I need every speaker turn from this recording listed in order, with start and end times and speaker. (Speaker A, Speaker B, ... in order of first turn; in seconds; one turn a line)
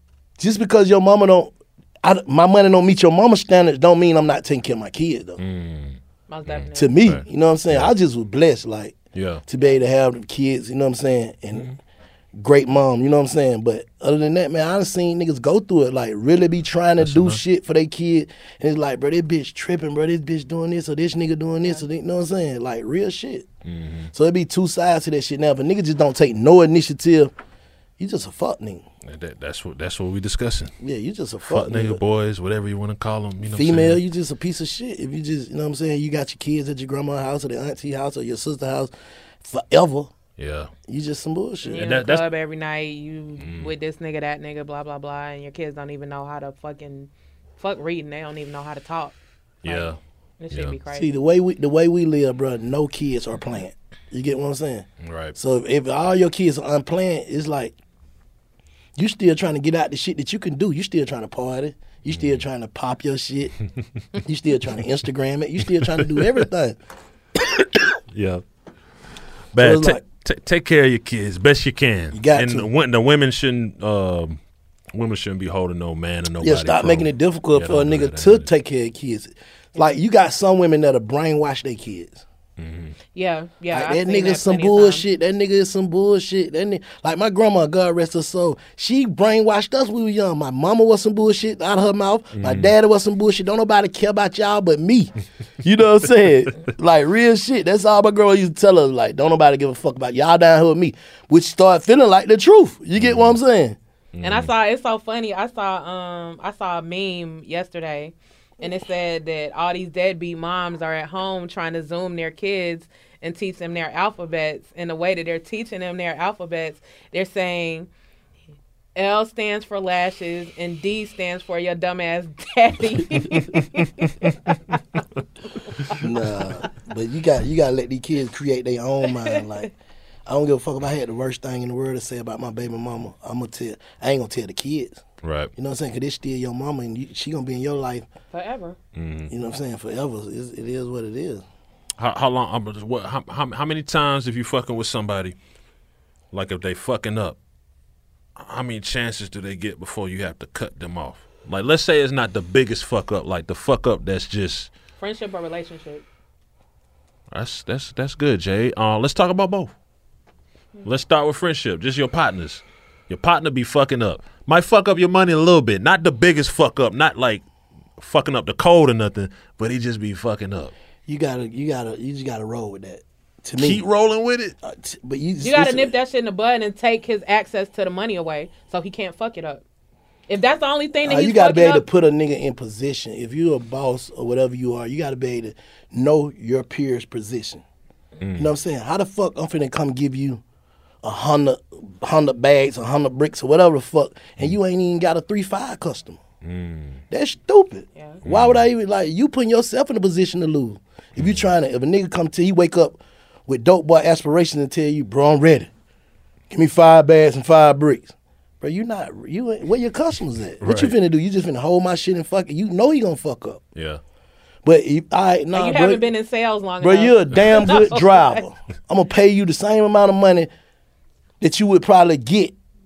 Speaker A: 0.4-5.4
Speaker B: 5.4-7.9
Speaker C: 6.3-7.0
Speaker A: 6.8-11.7
Speaker B: 9.1-9.4
Speaker A: 12.4-23.5
Speaker B: 17.0-17.4
Speaker B: 23.6-24.1
Speaker A: 24.1-27.3
Speaker A: 28.0-28.9
Speaker B: 29.0-30.7
Speaker A: 30.8-32.0
Speaker B: 31.5-34.0
Speaker A: 33.4-38.9
Speaker A: 39.4-40.1
Speaker B: 40.4-40.7
Speaker A: 40.9-41.8
Speaker C: 41.7-51.1
Speaker B: 41.7-42.2
Speaker B: 43.4-43.7
Speaker B: 49.6-50.0
Speaker A: 50.9-57.8
Speaker B: 55.0-55.4
Speaker A: 59.0-63.5
Speaker B: 62.1-62.4
Speaker A: 64.2-66.8
Speaker B: 65.8-66.4
Speaker B: 68.1-68.4
Speaker B: 69.5-74.4
Speaker A: 69.6-70.0
Speaker A: 72.1-72.7
Speaker B: 74.9-78.5
Speaker A: 76.4-82.2
Speaker B: 82.6-82.9
Speaker C: 83.1-85.0
Speaker A: 83.7-95.1
Speaker B: 92.3-92.7
Speaker A: 95.6-103.8
Speaker B: 103.0-103.3
Speaker B: 104.1-104.5
Speaker C: 104.2-117.9
Speaker C: 119.0-124.8
Speaker A: 125.9-129.7
Speaker C: 129.1-129.6
Speaker A: 130.2-135.0
Speaker B: 135.2-135.5
Speaker A: 135.6-138.1
Speaker C: 138.3-138.8
Speaker B: 138.9-139.3
Speaker A: 139.3-141.4
Speaker B: 142.0-145.3
Speaker B: 146.3-147.4
Speaker B: 148.4-154.7
Speaker C: 155.0-156.0
Speaker B: 157.3-159.7
Speaker B: 160.8-167.4
Speaker B: 168.0-170.7
Speaker A: 171.1-173.8
Speaker B: 173.6-174.5
Speaker A: 174.6-175.9
Speaker C: 175.4-179.6
Speaker C: 180.3-181.8
Speaker A: 181.0-187.6
Speaker B: 188.2-188.5
Speaker A: 188.4-190.4
Speaker A: 191.0-196.2
Speaker B: 196.4-197.0
Speaker A: 197.1-205.7
Speaker C: 197.9-198.2
Speaker B: 198.2-198.6
Speaker B: 201.2-201.4
Speaker A: 206.5-213.6
Speaker B: 210.6-210.9
Speaker A: 214.6-216.1
Speaker C: 215.5-218.4
Speaker A: 216.8-220.5
Speaker A: 221.4-222.5